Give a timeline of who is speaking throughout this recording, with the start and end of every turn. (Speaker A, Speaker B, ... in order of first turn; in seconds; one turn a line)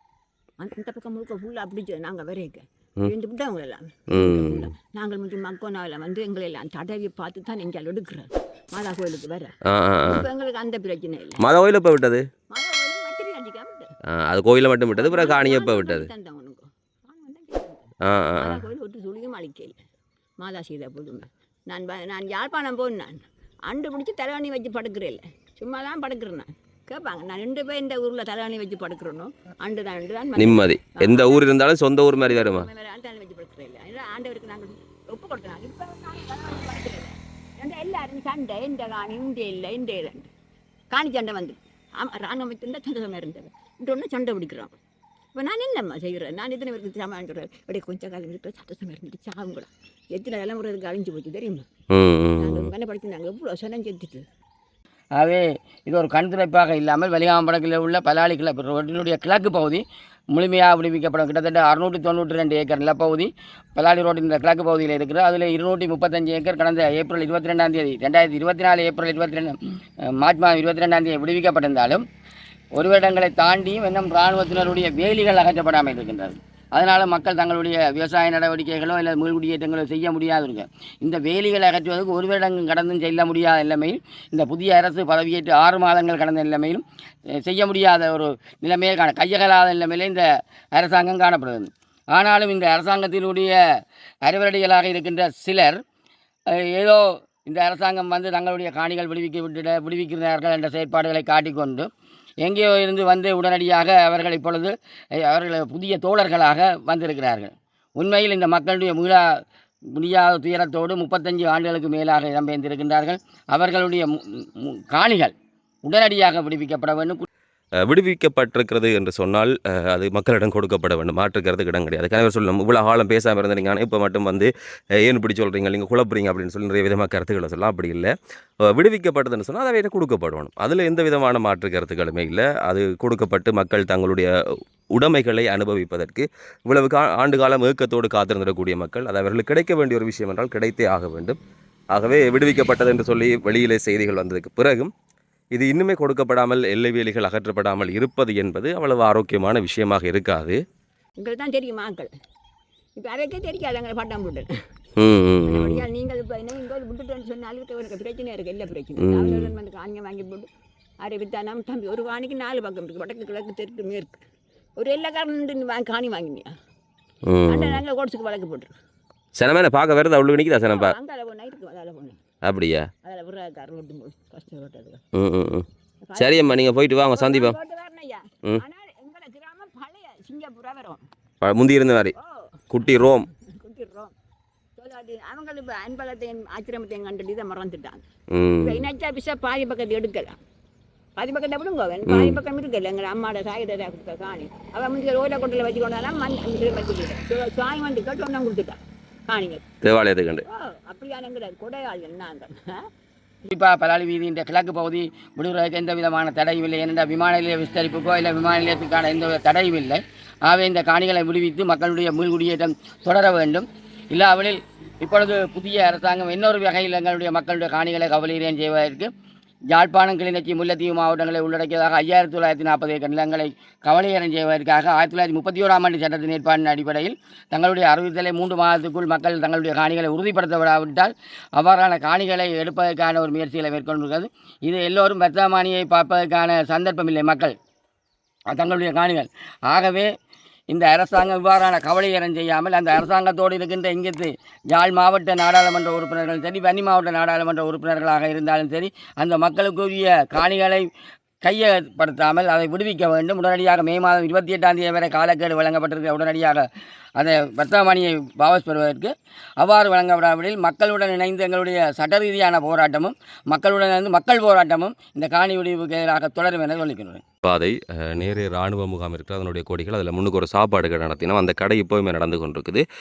Speaker A: 0.6-9.5
Speaker B: 4.1-4.7
Speaker B: 9.6-10.2
Speaker A: 10.0-11.4
Speaker B: 11.4-12.2
Speaker A: 12.5-13.9
Speaker B: 14.1-16.1
Speaker A: 14.9-19.8
Speaker B: 18.0-18.6
Speaker A: 20.4-31.5
Speaker B: 30.4-32.7
Speaker A: 32.1-40.3
Speaker A: 40.9-44.7
Speaker A: 45.3-51.6
Speaker B: 51.9-52.7
Speaker A: 52.4-54.2
Speaker C: 55.2-69.5
Speaker C: 70.2-72.0
Speaker C: 72.8-86.8
Speaker C: 87.4-93.6
Speaker C: 94.2-95.8
Speaker C: 96.5-101.9
Speaker C: 102.4-109.2
Speaker C: 110.0-115.3
Speaker C: 115.8-117.2
Speaker B: 117.8-124.5
Speaker B: 125.0-128.1
Speaker B: 128.7-134.3
Speaker B: 134.9-141.4
Speaker B: 141.9-144.9
Speaker B: 145.5-150.6
Speaker A: 151.2-152.1
Speaker A: 153.0-154.5
Speaker B: 155.0-155.8
Speaker A: 155.5-160.5
Speaker B: 159.0-159.5
Speaker A: 161.0-164.2
Speaker A: 164.8-166.5
Speaker B: 167.2-167.8
Speaker A: 167.5-168.7
Speaker B: 169.3-170.9
Speaker A: 170.7-172.2
Speaker B: 172.4-172.9
Speaker A: 173.0-175.0
Speaker B: 175.1-175.7
Speaker A: 176.1-176.6
Speaker B: 176.2-177.6
Speaker A: 177.1-181.0
Speaker B: 181.4-182.1
Speaker A: 182.2-182.4
Speaker B: 182.7-183.2
Speaker A: 183.5-184.1
Speaker A: 184.8-188.0
Speaker B: 188.3-188.8
Speaker A: 188.6-190.4
Speaker A: 191.2-199.6
Speaker B: 192.1-192.4
Speaker B: 199.8-200.4
Speaker A: 200.5-202.5
Speaker C: 203.5-219.1
Speaker C: 219.7-237.5
Speaker C: 238.5-240.1
Speaker C: 240.7-250.8
Speaker C: 251.4-256.6
Speaker C: 257.2-267.2
Speaker B: 267.4-272.8